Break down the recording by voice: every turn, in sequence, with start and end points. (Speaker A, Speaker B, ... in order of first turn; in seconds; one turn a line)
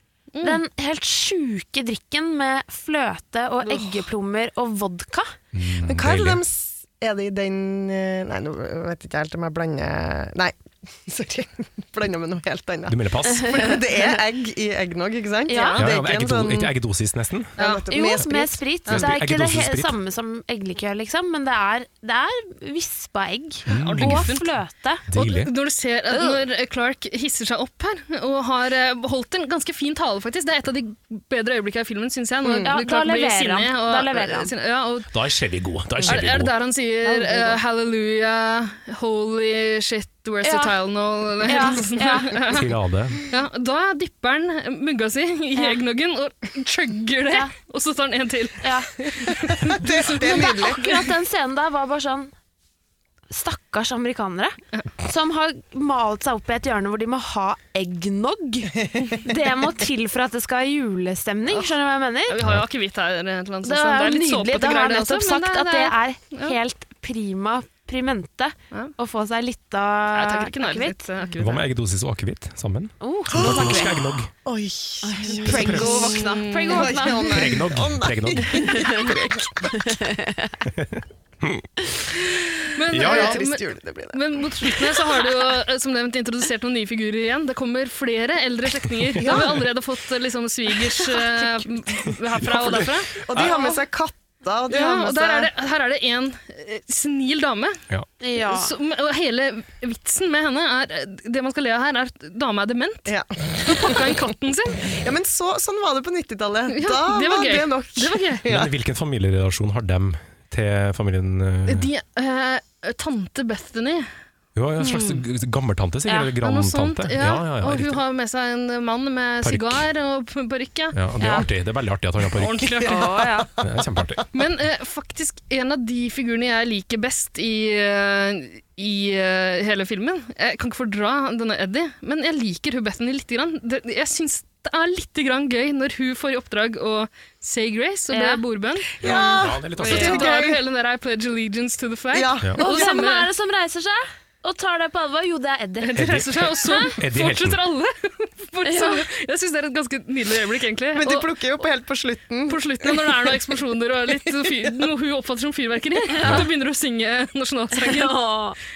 Speaker A: 0.3-0.6
Speaker B: 0.4-5.3
Speaker C: 5.5-6.4
Speaker D: 5.8-16.7
Speaker C: 12.9-13.8
Speaker B: 13.5-13.7
Speaker B: 15.5-15.8
Speaker C: 15.8-17.6
Speaker D: 17.6-19.1
Speaker A: 17.6-17.9
Speaker B: 17.9-25.0
Speaker C: 18.9-19.9
Speaker C: 23.7-24.3
Speaker A: 23.7-24.5
Speaker C: 25.1-25.5
Speaker A: 25.1-35.1
Speaker B: 26.1-26.4
Speaker D: 32.4-32.7
Speaker B: 32.6-34.5
Speaker C: 35.1-36.5
Speaker A: 36.0-42.7
Speaker B: 37.0-37.6
Speaker B: 40.4-40.7
Speaker B: 41.5-42.4
Speaker C: 42.5-43.2
Speaker A: 43.2-50.7
Speaker B: 48.6-48.9
Speaker D: 49.4-50.9
Speaker B: 50.1-52.3
Speaker B: 53.3-62.4
Speaker A: 62.3-66.5
Speaker B: 63.6-71.0
Speaker A: 70.1-71.7
Speaker C: 71.4-74.3
Speaker B: 73.0-74.0
Speaker D: 73.3-79.7
Speaker B: 75.0-77.5
Speaker C: 75.4-76.2
Speaker A: 75.5-76.9
Speaker C: 77.3-79.1
Speaker B: 78.6-79.1
Speaker B: 79.8-80.6
Speaker C: 80.8-81.7
Speaker A: 82.7-93.6
Speaker C: 82.9-83.4
Speaker D: 82.9-85.0
Speaker B: 91.2-91.7
Speaker C: 92.4-93.5
Speaker D: 93.2-95.5
Speaker A: 94.7-97.8
Speaker B: 98.2-98.7
Speaker A: 98.4-104.8
Speaker D: 103.0-104.2
Speaker D: 104.9-108.7
Speaker A: 106.7-108.4
Speaker C: 108.4-111.9
Speaker A: 111.7-114.1
Speaker C: 114.5-118.0
Speaker A: 114.8-115.2
Speaker B: 116.1-116.3
Speaker A: 116.4-121.0
Speaker C: 119.4-119.8
Speaker C: 120.9-122.9
Speaker B: 121.2-121.5
Speaker A: 122.4-123.0
Speaker D: 122.8-124.2
Speaker B: 122.8-123.5
Speaker C: 123.6-124.2
Speaker A: 124.3-139.0
Speaker B: 138.1-138.4
Speaker C: 139.0-140.2
Speaker D: 139.0-140.6
Speaker A: 139.8-143.3
Speaker D: 142.1-143.0
Speaker B: 142.6-146.1
Speaker A: 145.8-151.3
Speaker C: 146.0-147.6
Speaker B: 146.6-146.9
Speaker B: 148.6-149.0
Speaker D: 150.9-153.5
Speaker A: 152.5-158.2
Speaker D: 154.2-154.7
Speaker B: 156.2-156.4
Speaker C: 156.2-156.5
Speaker B: 157.7-158.6